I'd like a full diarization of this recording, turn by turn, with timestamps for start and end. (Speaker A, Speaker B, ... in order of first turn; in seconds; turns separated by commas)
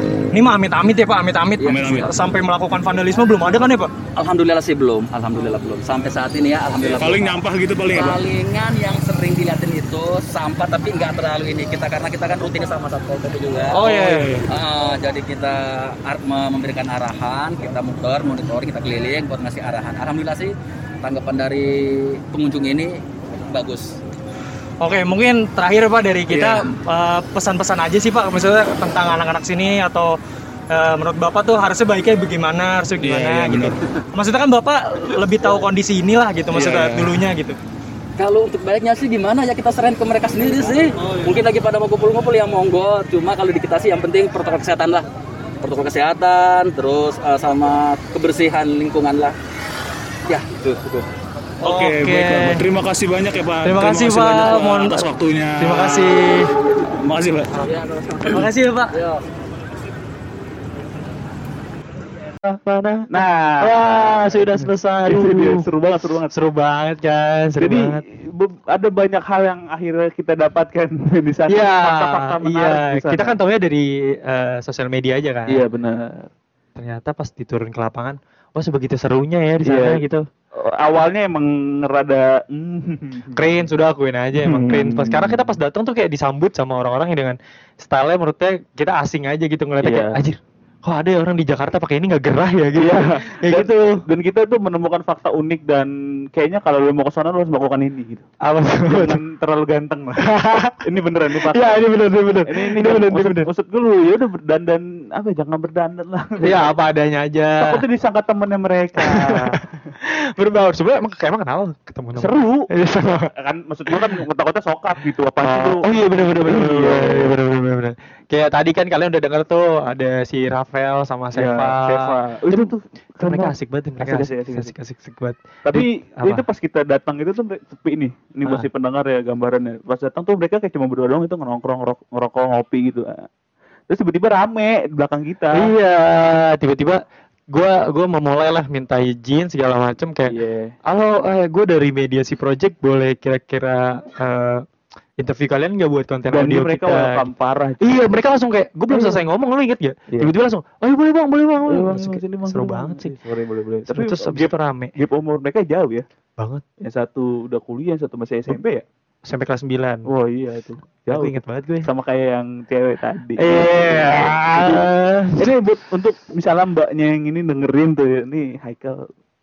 Speaker A: 0.3-3.9, Speaker B: 1.6-2.0, Speaker C: 1.6-2.1, Speaker B: 4.2-13.9, Speaker C: 6.8-8.2, Speaker A: 13.7-14.4, Speaker C: 13.8-14.4, Speaker B: 14.5-23.9, Speaker A: 24.8-30.2, Speaker C: 26.3-26.6, Speaker A: 30.7-37.6, Speaker C: 33.0-33.8, Speaker C: 36.5-37.1, Speaker B: 38.2-45.0, Speaker B: 45.6-49.4, Speaker B: 50.3-51.0, Speaker C: 51.6-56.2, Speaker A: 51.6-52.6, Speaker A: 53.6-56.5, Speaker C: 56.9-57.5, Speaker B: 57.6-59.2, Speaker A: 58.3-59.0, Speaker D: 62.4-65.7, Speaker E: 63.1-63.7, Speaker E: 64.2-66.3, Speaker D: 66.3-68.0, Speaker E: 67.6-73.4, Speaker D: 71.5-75.6, Speaker E: 75.5-76.3, Speaker D: 76.8-80.1, Speaker E: 79.7-83.5, Speaker D: 83.4-94.0, Speaker E: 84.4-85.5, Speaker E: 89.8-90.2, Speaker E: 92.8-98.3, Speaker D: 98.4-99.2, Speaker E: 98.9-101.8, Speaker D: 100.2-100.8, Speaker D: 101.4-103.5, Speaker E: 102.5-106.7, Speaker D: 106.4-107.8, Speaker E: 107.6-109.6, Speaker D: 109.0-109.5, Speaker D: 110.1-113.3, Speaker E: 112.2-112.7, Speaker E: 113.2-115.9, Speaker D: 113.9-114.1, Speaker D: 115.4-126.4, Speaker E: 116.4-117.3, Speaker E: 121.4-124.7, Speaker E: 125.6-133.2, Speaker E: 133.9-135.7, Speaker D: 135.6-140.3, Speaker E: 140.3-140.8, Speaker D: 140.9-144.6, Speaker D: 145.2-147.3, Speaker E: 146.3-148.1, Speaker D: 147.8-153.1, Speaker E: 148.9-149.2, Speaker E: 151.7-156.0, Speaker D: 153.9-154.9, Speaker D: 156.4-156.6, Speaker E: 156.8-158.8, Speaker D: 159.2-160.1, Speaker E: 160.1-169.1, Speaker D: 161.1-161.9, Speaker D: 163.4-165.5